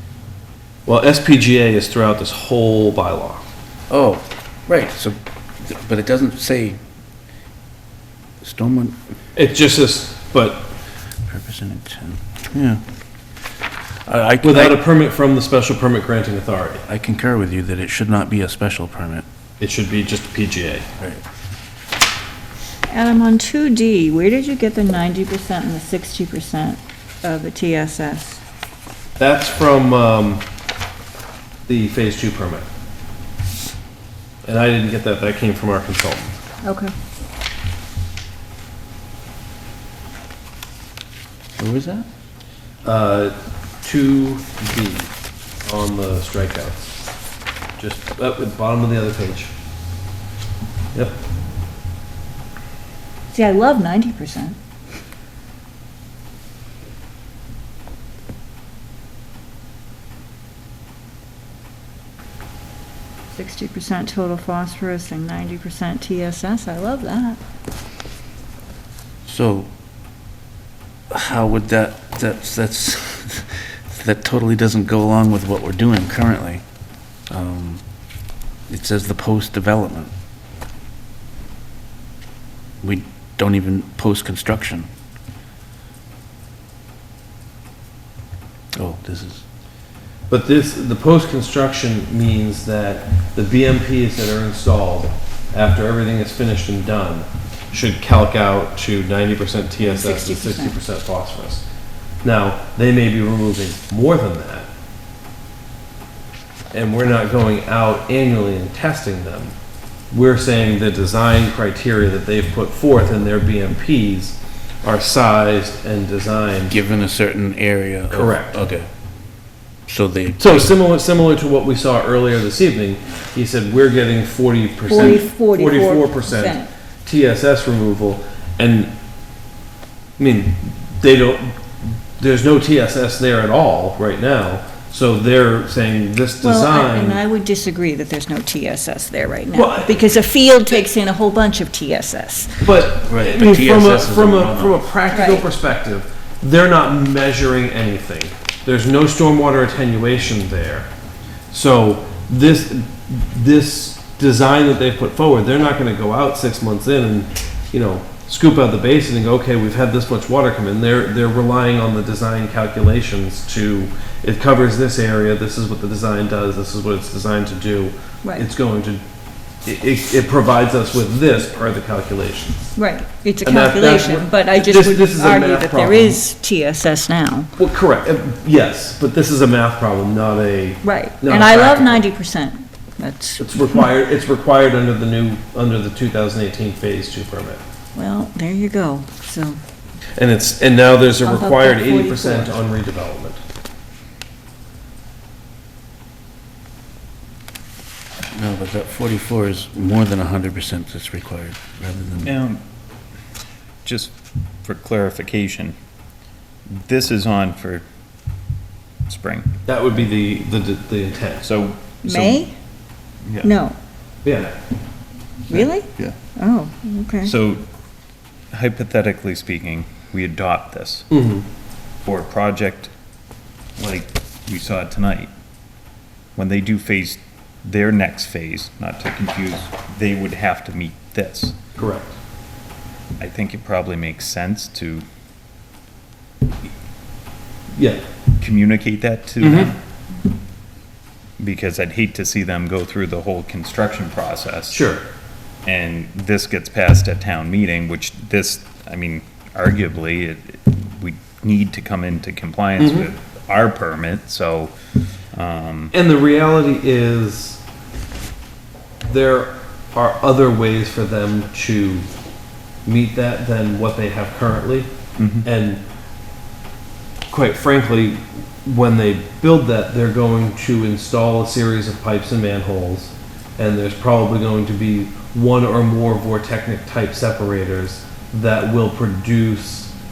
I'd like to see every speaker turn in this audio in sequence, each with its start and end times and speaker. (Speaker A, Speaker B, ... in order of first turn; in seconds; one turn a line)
Speaker A: 0.8-3.5
Speaker B: 3.9-6.8
Speaker B: 8.4-9.0
Speaker A: 9.3-10.7
Speaker B: 11.2-12.8
Speaker B: 14.0-14.8
Speaker A: 14.4-16.8
Speaker B: 16.9-19.2
Speaker A: 19.6-20.9
Speaker C: 22.9-28.4
Speaker A: 29.2-30.4
Speaker A: 31.7-32.6
Speaker A: 34.4-36.4
Speaker C: 36.6-36.9
Speaker B: 41.6-42.1
Speaker A: 42.8-45.1
Speaker A: 45.6-46.9
Speaker A: 47.8-49.5
Speaker C: 53.3-54.6
Speaker C: 63.3-67.4
Speaker B: 69.2-69.7
Speaker B: 71.1-76.6
Speaker B: 77.3-77.8
Speaker B: 78.7-80.1
Speaker B: 82.8-84.9
Speaker B: 88.7-89.4
Speaker A: 90.3-101.6
Speaker C: 99.8-100.8
Speaker A: 102.2-104.7
Speaker A: 106.7-109.5
Speaker A: 110.1-116.7
Speaker B: 116.7-118.9
Speaker A: 118.1-118.6
Speaker B: 119.9-120.7
Speaker A: 120.4-128.9
Speaker C: 124.9-126.7
Speaker A: 130.2-131.6
Speaker A: 132.2-137.2
Speaker C: 136.4-142.7
Speaker A: 139.5-140.1
Speaker A: 142.6-150.9
Speaker B: 143.0-144.8
Speaker C: 145.1-145.5
Speaker A: 151.5-169.0
Speaker A: 169.6-172.7
Speaker C: 172.8-177.5
Speaker A: 173.4-176.2
Speaker A: 177.6-182.1
Speaker C: 180.8-183.8
Speaker A: 183.4-187.6
Speaker C: 187.9-189.6
Speaker A: 190.2-193.4
Speaker C: 191.2-192.5
Speaker B: 198.3-202.3
Speaker D: 202.2-202.6
Speaker D: 203.8-204.1
Speaker D: 204.6-205.7
Speaker D: 206.7-207.8
Speaker D: 209.1-209.5
Speaker A: 209.7-211.4
Speaker D: 211.4-212.4
Speaker C: 212.0-212.5
Speaker C: 213.4-213.8
Speaker A: 214.2-214.5
Speaker C: 215.5-217.3
Speaker D: 217.2-217.6
Speaker D: 218.5-221.1
Speaker A: 221.1-221.4
Speaker D: 222.0-222.9
Speaker D: 223.8-225.3
Speaker D: 226.3-231.6
Speaker A: 231.8-232.2
Speaker D: 233.2-235.0
Speaker A: 237.8-238.0
Speaker D: 238.4-239.8
Speaker A: 239.4-239.7
Speaker D: 241.4-244.8
Speaker A: 244.7-245.0
Speaker D: 245.6-254.7
Speaker A: 252.8-253.1
Speaker D: 255.3-255.9
Speaker A: 255.9-257.6
Speaker A: 259.0-262.1
Speaker A: 262.9-264.9
Speaker D: 265.2-265.4
Speaker A: 265.4-265.8
Speaker A: 267.3-279.9